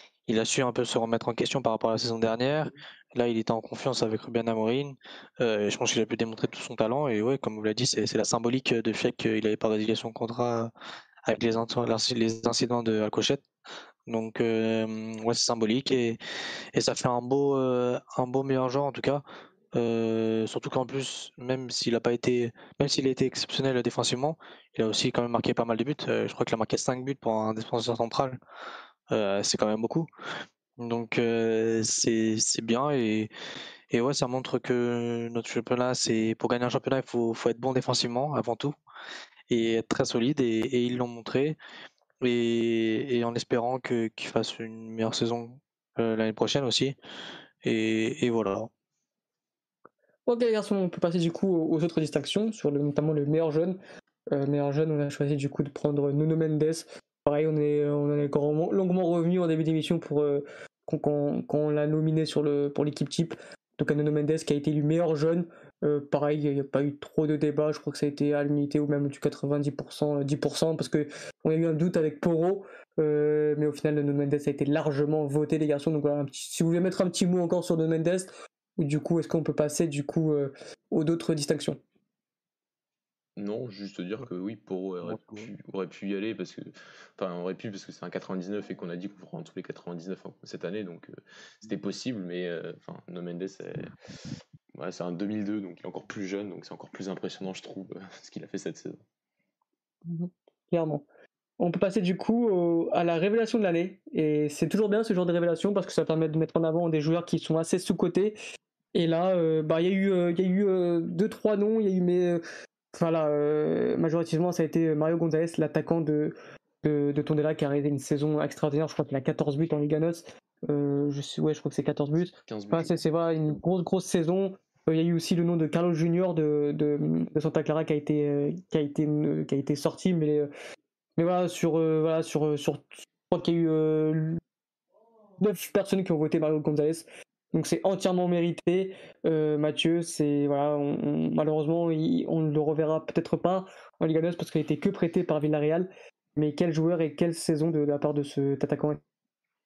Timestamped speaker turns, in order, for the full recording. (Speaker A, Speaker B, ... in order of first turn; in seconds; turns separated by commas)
Speaker A: 0.3-10.7, Speaker A: 11.3-13.4, Speaker A: 14.1-16.2, Speaker A: 16.7-28.4, Speaker A: 29.1-30.1, Speaker A: 30.8-33.3, Speaker A: 33.9-38.7, Speaker A: 39.5-41.6, Speaker A: 42.2-47.0, Speaker A: 47.6-48.7, Speaker B: 50.3-53.8, Speaker B: 54.3-81.8, Speaker C: 83.4-93.9, Speaker A: 85.1-85.5, Speaker C: 94.7-99.0, Speaker B: 100.1-101.0, Speaker B: 101.6-108.4, Speaker B: 109.0-112.4, Speaker B: 112.9-130.5, Speaker C: 122.3-123.0, Speaker B: 131.2-134.4, Speaker B: 135.4-149.0